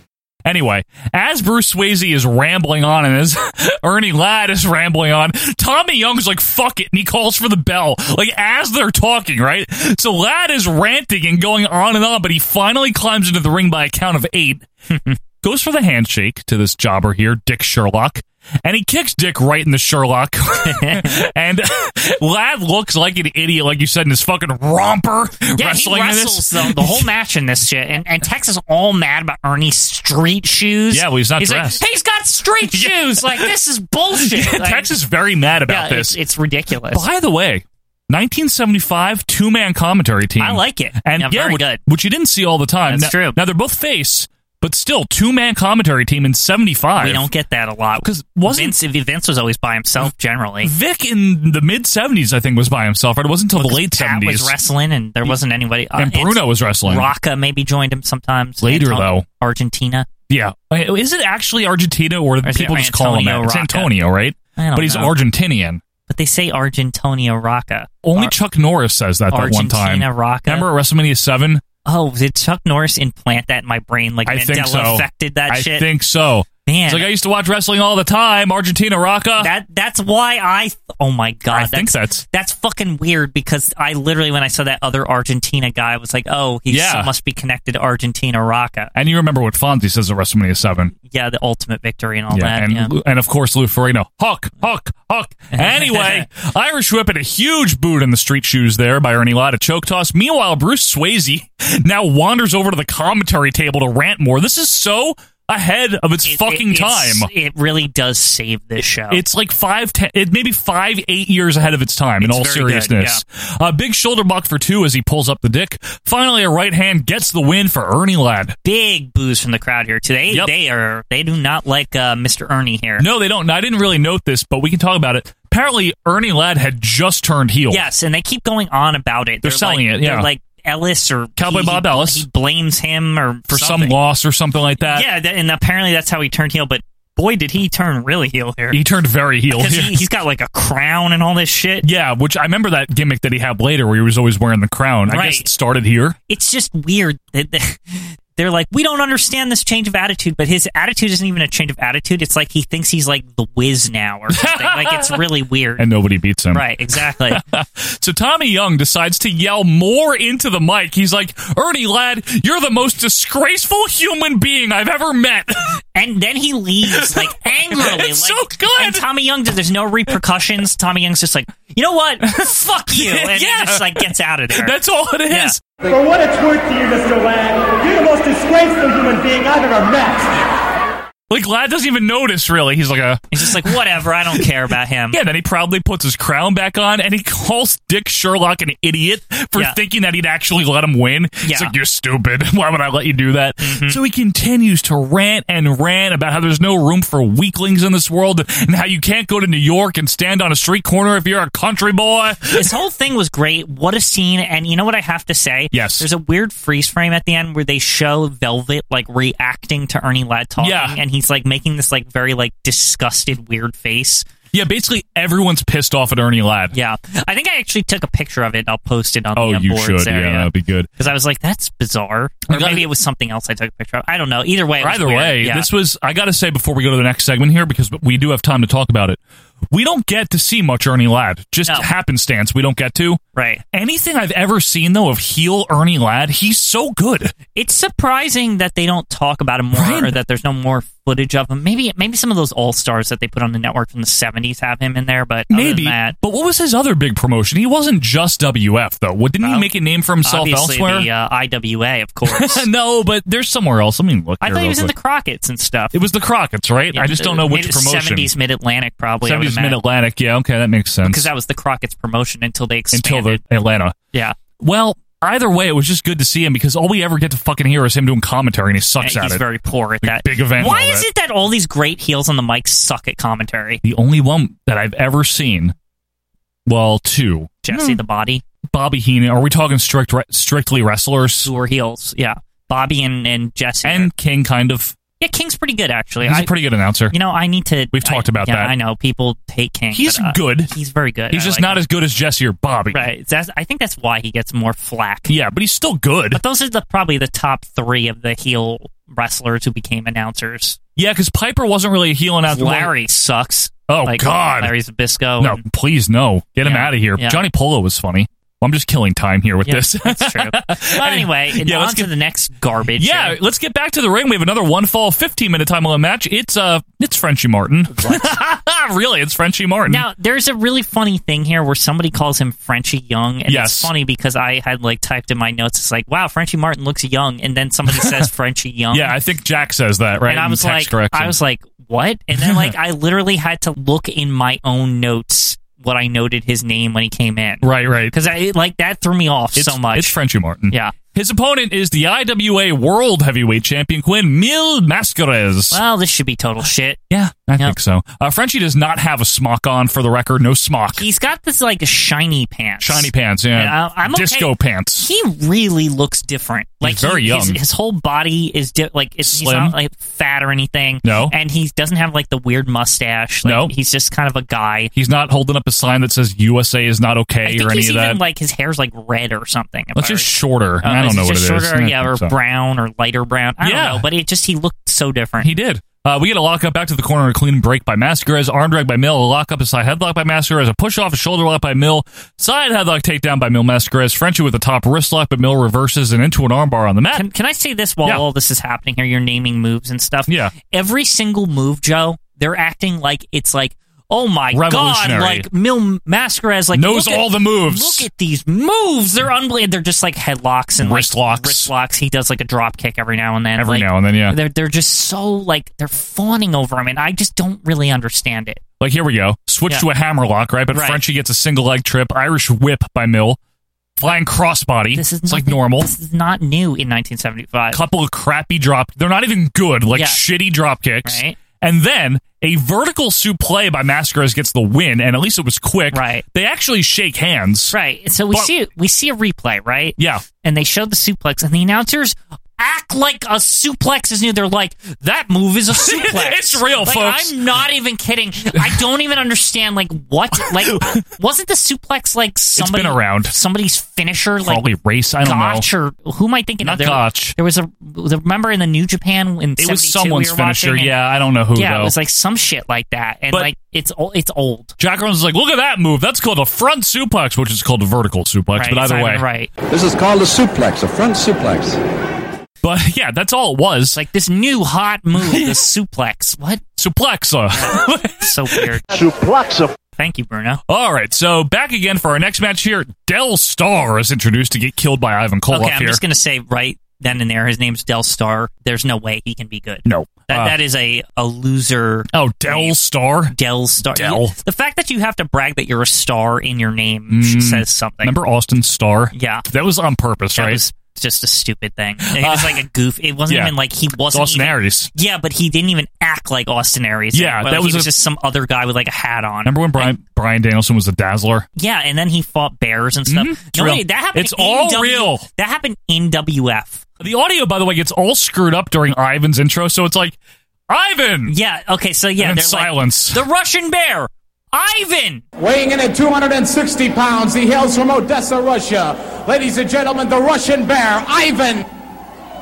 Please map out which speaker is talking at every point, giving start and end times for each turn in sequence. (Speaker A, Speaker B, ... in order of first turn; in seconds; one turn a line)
Speaker A: 0.4-14.7
Speaker B: 14.9-15.2
Speaker A: 15.4-27.1
Speaker B: 20.6-21.1
Speaker B: 25.6-34.9
Speaker A: 30.9-31.8
Speaker A: 32.7-33.5
Speaker A: 34.2-36.2
Speaker B: 35.7-37.0
Speaker A: 36.9-47.3
Speaker B: 40.4-41.8
Speaker B: 42.9-43.4
Speaker B: 47.0-50.7
Speaker A: 48.0-48.7
Speaker A: 50.6-54.5
Speaker B: 53.6-60.1
Speaker A: 56.0-57.1
Speaker A: 58.6-59.2
Speaker A: 60.3-65.8
Speaker B: 62.4-63.9
Speaker B: 64.6-65.1
Speaker B: 66.1-68.3
Speaker A: 68.0-71.6
Speaker B: 69.3-70.7
Speaker B: 71.8-75.8
Speaker A: 74.2-79.5
Speaker B: 76.7-77.1
Speaker B: 79.4-88.9
Speaker A: 81.5-82.2
Speaker A: 86.7-87.1
Speaker A: 88.9-90.9
Speaker B: 91.1-92.9
Speaker A: 92.3-107.3
Speaker B: 95.5-96.2
Speaker B: 106.2-109.2
Speaker A: 109.1-118.5
Speaker B: 112.2-113.2
Speaker B: 118.6-123.0
Speaker A: 123.0-127.8
Speaker B: 127.7-133.9
Speaker A: 129.4-130.3
Speaker A: 131.4-132.2
Speaker A: 133.5-135.1
Speaker B: 134.9-138.8
Speaker A: 138.7-140.0
Speaker B: 139.5-141.8
Speaker A: 141.8-146.2
Speaker B: 145.1-145.5
Speaker B: 146.3-155.8
Speaker A: 154.3-155.2
Speaker A: 155.8-165.7
Speaker B: 156.5-157.4
Speaker B: 165.9-174.7
Speaker A: 167.0-169.0
Speaker A: 172.2-175.6
Speaker B: 175.3-175.5
Speaker C: 175.8-180.3
Speaker A: 181.3-183.8
Speaker B: 183.3-185.2
Speaker A: 185.1-202.7
Speaker B: 191.4-191.7
Speaker B: 193.6-194.0
Speaker B: 202.5-214.2
Speaker A: 205.7-206.1
Speaker A: 210.6-211.0
Speaker A: 214.5-216.7
Speaker B: 216.7-225.7
Speaker A: 219.3-220.9
Speaker A: 222.5-222.9
Speaker A: 224.8-229.2
Speaker A: 229.7-233.2
Speaker B: 233.3-233.6
Speaker A: 233.7-237.3
Speaker B: 237.5-246.1
Speaker A: 239.7-240.1
Speaker A: 245.5-251.1
Speaker B: 249.4-249.7
Speaker B: 250.2-252.6
Speaker A: 252.3-254.9
Speaker B: 254.4-255.9
Speaker A: 255.9-258.3
Speaker B: 256.9-259.8
Speaker A: 259.2-261.3
Speaker B: 261.0-263.4
Speaker A: 262.9-263.9
Speaker A: 264.6-269.4
Speaker B: 269.0-273.8
Speaker A: 270.0-271.1
Speaker A: 273.8-275.7
Speaker A: 276.7-278.0
Speaker B: 277.6-278.4
Speaker A: 278.7-281.5
Speaker B: 281.4-284.1
Speaker A: 283.8-284.9
Speaker B: 285.2-286.5
Speaker A: 286.2-287.1
Speaker B: 287.1-291.8
Speaker A: 287.9-288.7
Speaker A: 289.9-290.7
Speaker A: 291.3-293.1
Speaker B: 292.9-295.3
Speaker A: 295.3-296.4
Speaker B: 296.3-300.8
Speaker A: 301.0-302.9
Speaker B: 302.5-305.6
Speaker A: 303.9-304.7
Speaker A: 305.4-312.1
Speaker B: 306.6-307.4
Speaker B: 309.6-313.4
Speaker A: 313.0-320.0
Speaker B: 318.0-318.4
Speaker B: 319.9-329.1
Speaker A: 323.5-323.9
Speaker A: 328.9-331.4
Speaker B: 330.3-340.1
Speaker A: 332.4-332.7
Speaker A: 337.6-338.1
Speaker A: 339.6-345.8
Speaker B: 340.7-340.9
Speaker B: 345.7-347.0
Speaker A: 347.1-351.0
Speaker B: 350.9-364.9
Speaker A: 352.8-355.1
Speaker A: 356.8-357.6
Speaker A: 359.2-359.8
Speaker A: 361.0-361.3
Speaker A: 363.4-363.7
Speaker A: 364.9-368.2
Speaker B: 367.4-375.5
Speaker A: 369.9-372.3
Speaker A: 373.6-374.0
Speaker A: 375.4-387.2
Speaker B: 387.1-408.6
Speaker A: 390.3-390.5
Speaker A: 394.5-395.5
Speaker A: 396.7-398.1
Speaker A: 400.8-401.7
Speaker A: 403.6-404.4
Speaker A: 408.8-413.4
Speaker B: 410.7-411.0
Speaker A: 414.0-415.9
Speaker B: 414.9-417.8
Speaker A: 417.7-427.8
Speaker B: 419.9-420.2
Speaker B: 421.1-421.4
Speaker B: 425.9-426.2
Speaker B: 427.7-444.6
Speaker A: 430.0-430.2
Speaker A: 435.7-437.4
Speaker A: 440.6-441.0
Speaker A: 442.6-443.3
Speaker A: 444.4-445.6
Speaker B: 445.2-450.9
Speaker A: 446.6-447.3
Speaker A: 449.6-451.9
Speaker B: 451.5-454.7
Speaker A: 454.8-459.2
Speaker B: 458.6-459.5
Speaker D: 459.7-461.8
Speaker A: 462.6-464.0
Speaker B: 463.9-466.6
Speaker A: 465.1-465.6
Speaker A: 466.8-468.7
Speaker B: 467.5-469.0
Speaker D: 469.0-469.7
Speaker B: 470.0-470.6
Speaker A: 470.7-476.0
Speaker B: 475.5-482.7
Speaker A: 479.9-480.6
Speaker A: 482.1-483.3
Speaker B: 483.3-488.1
Speaker A: 483.9-484.3
Speaker A: 487.1-490.6
Speaker B: 489.1-489.4
Speaker B: 490.3-499.9
Speaker A: 492.1-492.6
Speaker A: 493.3-493.5
Speaker A: 494.1-494.9
Speaker A: 497.1-497.9
Speaker A: 499.4-501.5
Speaker B: 501.6-506.9
Speaker A: 503.1-505.2
Speaker A: 507.0-510.1
Speaker A: 510.7-511.3
Speaker B: 511.3-515.2
Speaker A: 512.2-513.2
Speaker E: 515.4-521.6